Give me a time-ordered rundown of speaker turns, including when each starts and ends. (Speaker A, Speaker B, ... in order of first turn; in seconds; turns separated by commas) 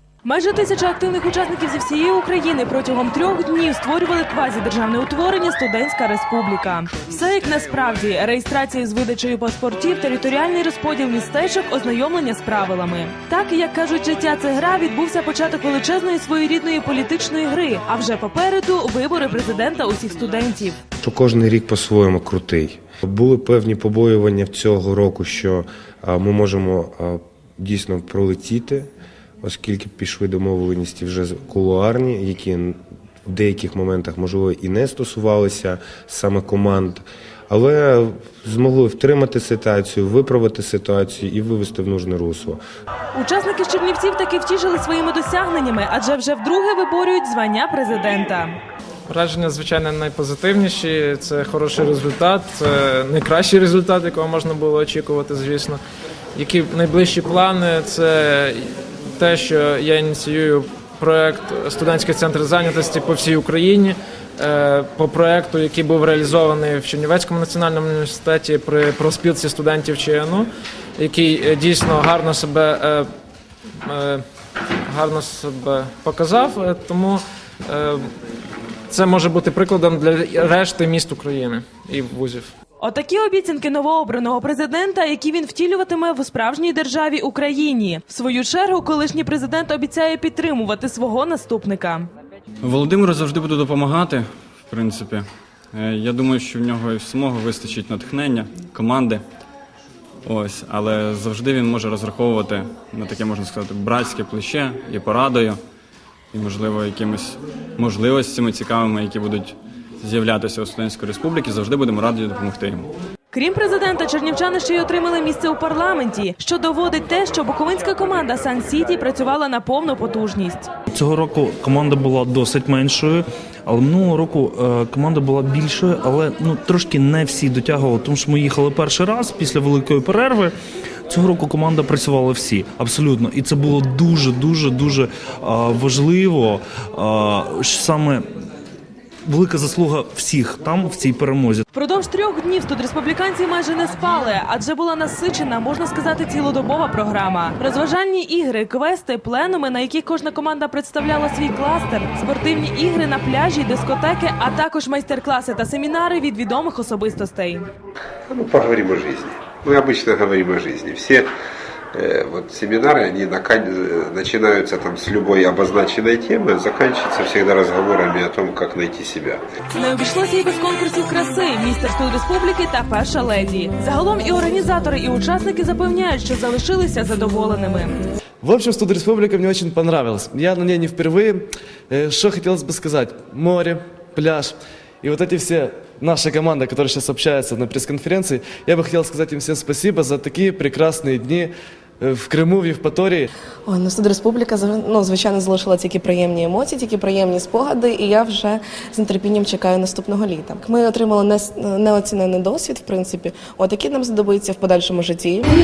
Speaker A: 0.2-20.8, Speaker B: 21.0-28.9, Speaker B: 29.4-42.6, Speaker A: 43.1-48.6, Speaker C: 49.1-55.8, Speaker C: 56.3-73.1, Speaker C: 73.8-74.2, Speaker C: 74.9-78.0, Speaker C: 78.9-82.5, Speaker A: 82.8-92.1, Speaker D: 92.6-99.2, Speaker D: 100.2-105.6, Speaker D: 106.3-112.9, Speaker A: 113.3-120.7, Speaker E: 120.9-130.5, Speaker E: 131.1-138.2, Speaker E: 139.3-141.6, Speaker A: 141.7-157.7, Speaker F: 158.3-161.2, Speaker F: 162.0-169.4, Speaker A: 169.7-178.0, Speaker G: 178.4-193.3, Speaker H: 193.7-205.4